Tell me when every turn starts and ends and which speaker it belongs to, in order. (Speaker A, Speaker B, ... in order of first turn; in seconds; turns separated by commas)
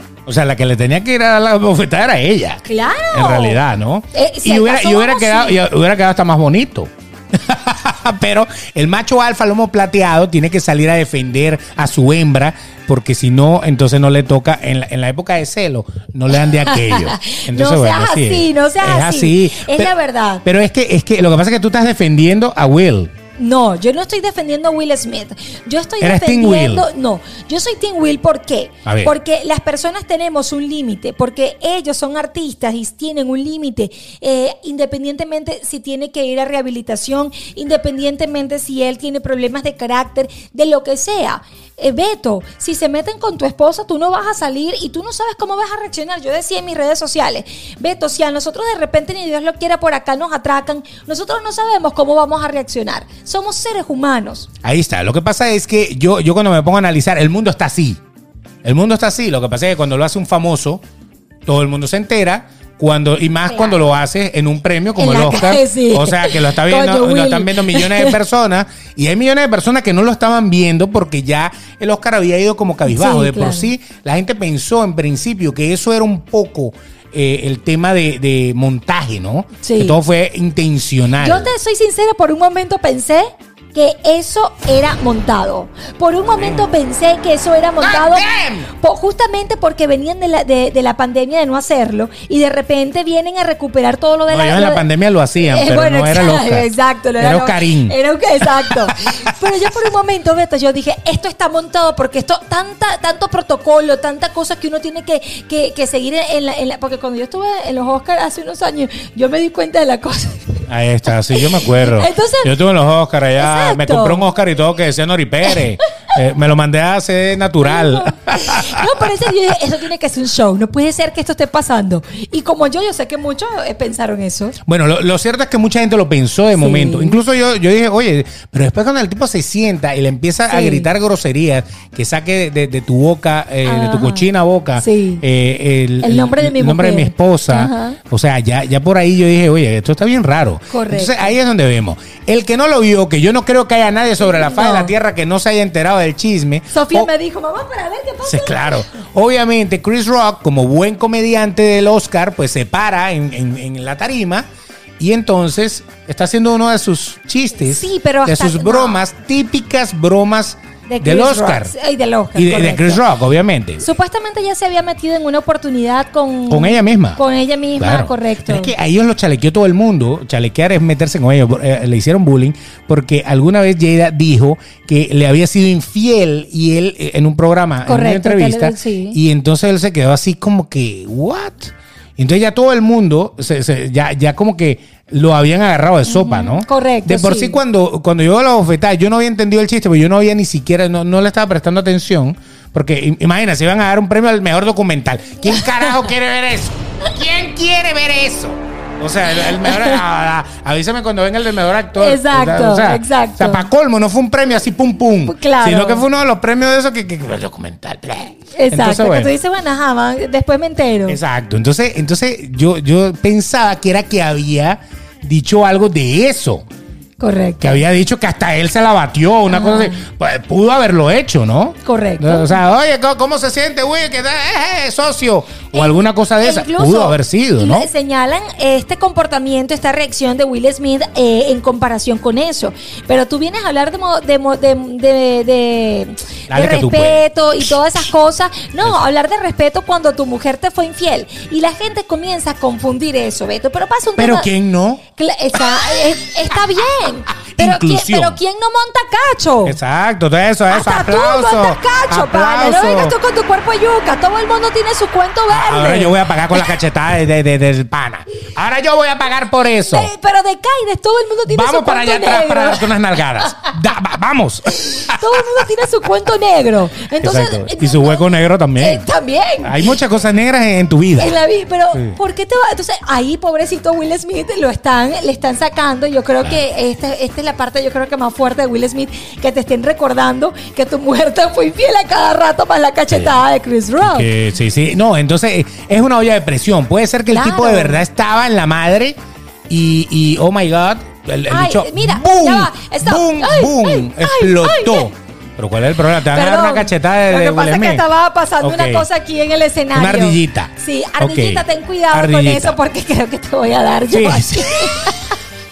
Speaker A: 0.3-23.1, Speaker B: 2.6-3.6, Speaker B: 4.1-5.6, Speaker B: 16.4-20.4, Speaker B: 23.4-54.5, Speaker A: 26.0-26.8, Speaker A: 28.9-29.1, Speaker A: 54.6-58.0, Speaker A: 58.6-60.8, Speaker A: 61.5-81.5, Speaker B: 63.5-63.8, Speaker B: 65.0-68.2, Speaker B: 72.8-73.7, Speaker B: 79.6-80.0, Speaker B: 81.2-94.8, Speaker A: 86.4-86.6, Speaker A: 87.8-88.7, Speaker A: 94.3-98.0, Speaker B: 95.4-110.6, Speaker A: 98.6-99.3, Speaker A: 110.7-119.3, Speaker B: 111.3-112.5, Speaker B: 113.4-114.2, Speaker B: 117.6-124.6, Speaker A: 124.6-147.1, Speaker B: 126.5-127.2, Speaker B: 130.5-130.9, Speaker B: 133.6-134.3, Speaker B: 134.8-135.2, Speaker B: 136.0-138.0, Speaker B: 140.7-141.3, Speaker B: 144.2-144.9, Speaker B: 146.7-148.8, Speaker A: 148.2-154.4, Speaker A: 155.0-161.7, Speaker B: 157.7-159.0, Speaker B: 160.9-163.0, Speaker A: 162.3-163.8, Speaker B: 163.8-168.7, Speaker A: 166.5-167.2, Speaker A: 167.8-209.3, Speaker B: 177.8-179.2, Speaker B: 186.0-187.6, Speaker B: 195.4-196.0, Speaker B: 199.3-200.0, Speaker B: 202.0-203.7, Speaker B: 205.3-206.0, Speaker B: 208.5-211.2, Speaker A: 211.1-216.7, Speaker B: 217.2-217.8, Speaker A: 217.6-227.9, Speaker B: 219.5-220.0, Speaker B: 221.8-222.6, Speaker B: 225.7-244.5, Speaker A: 236.5-237.2, Speaker A: 244.2-245.0, Speaker B: 245.2-249.8, Speaker A: 247.4-248.4, Speaker A: 249.6-253.2, Speaker B: 250.7-256.7, Speaker A: 255.5-260.1, Speaker B: 259.9-263.5, Speaker A: 261.5-265.7, Speaker B: 264.7-268.2, Speaker A: 267.2-269.1, Speaker B: 268.8-269.9, Speaker A: 269.6-271.4, Speaker B: 271.2-284.3, Speaker A: 284.0-289.2, Speaker B: 287.3-288.0, Speaker A: 289.7-298.0, Speaker B: 291.5-295.1, Speaker B: 296.2-305.4, Speaker A: 298.6-299.1, Speaker A: 299.9-302.8, Speaker A: 304.1-305.2